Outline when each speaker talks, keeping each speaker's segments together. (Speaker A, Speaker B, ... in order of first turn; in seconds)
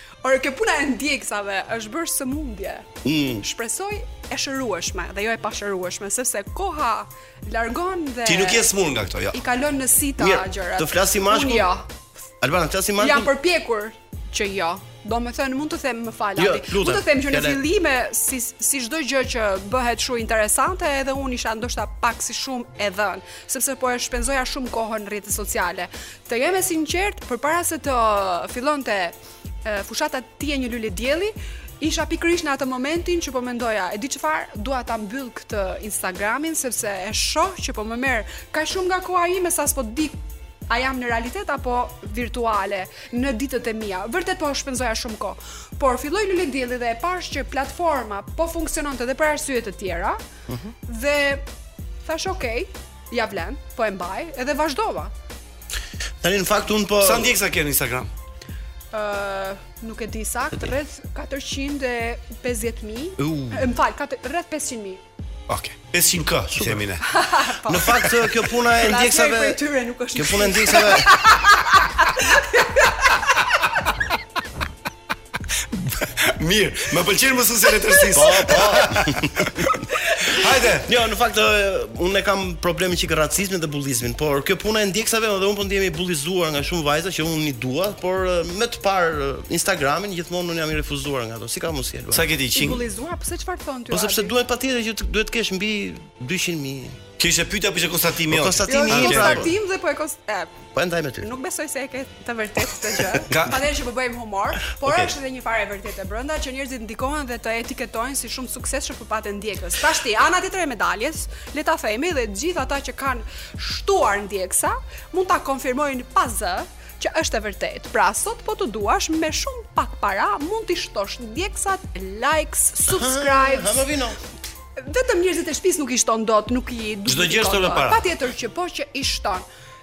Speaker A: 0.2-2.9, 3.4-8.7, 9.3-11.8, 13.0-40.2, 40.7-50.2, 50.9-51.4, 52.0-55.1, 58.9-65.0, 67.0-68.2, 68.8-73.3, 92.5-94.3, 98.7-100.7, 101.2-123.8, 124.8-129.4
Speaker B: 3.0-3.4, 10.2-11.7, 12.4-13.3, 16.4-17.6, 50.5-50.7, 56.2-57.3, 63.2-63.7, 66.5-66.8, 67.6-69.6, 70.1-71.2, 78.1-79.7, 80.8-92.3, 93.9-97.0, 98.3-99.5, 100.7-101.3, 104.7-105.1, 122.9-124.2
Speaker C: 8.2-9.4, 57.0-58.1, 65.5-67.0, 75.5-79.7, 80.3-80.9, 92.1-92.8, 97.2-99.5, 103.3-103.6, 127.0-128.1